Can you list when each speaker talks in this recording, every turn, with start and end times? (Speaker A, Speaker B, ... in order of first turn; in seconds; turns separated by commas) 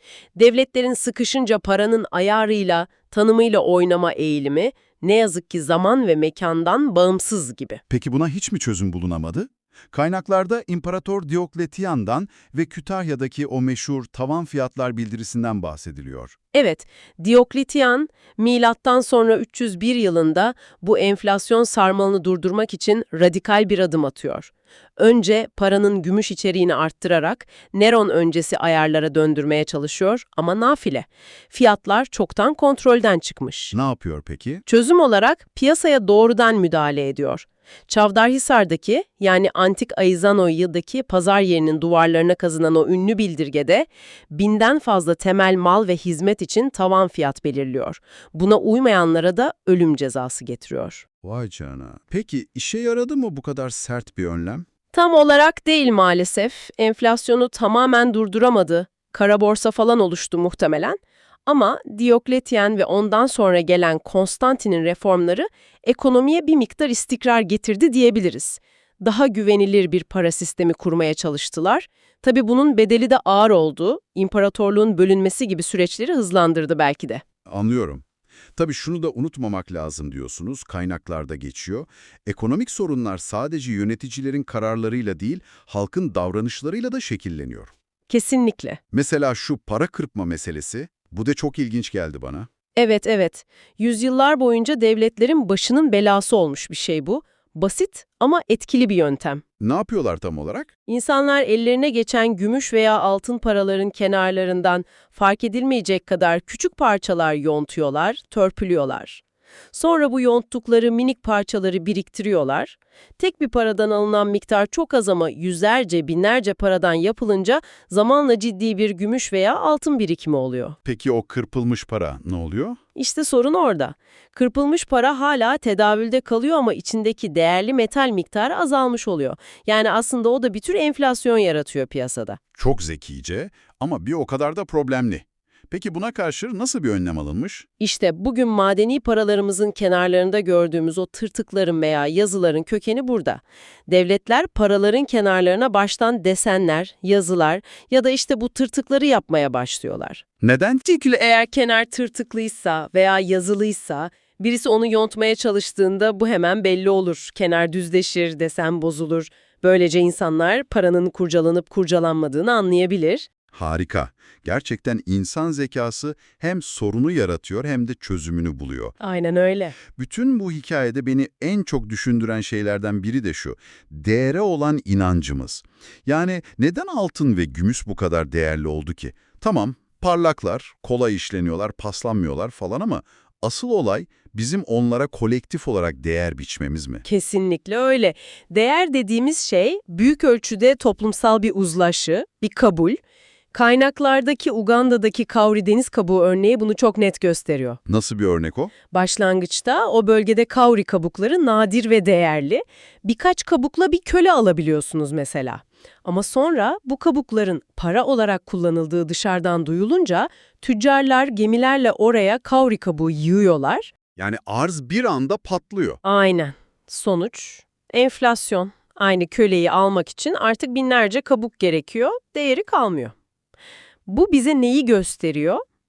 Speaker A: 0.3-7.8, Speaker B: 7.9-16.3, Speaker A: 16.5-33.7, Speaker B: 33.7-34.6, Speaker A: 34.6-51.0, Speaker B: 51.2-54.6, Speaker A: 54.9-77.2, Speaker B: 77.5-78.0, Speaker B: 78.5-87.7, Speaker A: 88.1-88.8, Speaker B: 88.9-92.5, Speaker A: 92.8-99.4, Speaker B: 99.6-100.7, Speaker A: 100.8-109.2, Speaker A: 109.7-120.8, Speaker B: 120.8-122.8, Speaker A: 123.0-132.4, Speaker B: 132.6-137.7, Speaker A: 137.8-150.2, Speaker B: 150.4-151.1, Speaker A: 151.1-163.3, Speaker B: 163.5-169.0, Speaker A: 169.0-169.8, Speaker B: 169.9-187.0, Speaker A: 187.0-193.0, Speaker A: 193.5-197.8, Speaker B: 197.9-198.7, Speaker A: 198.9-213.9, Speaker B: 214.2-216.0, Speaker A: 216.0-223.1, Speaker A: 224.1-225.6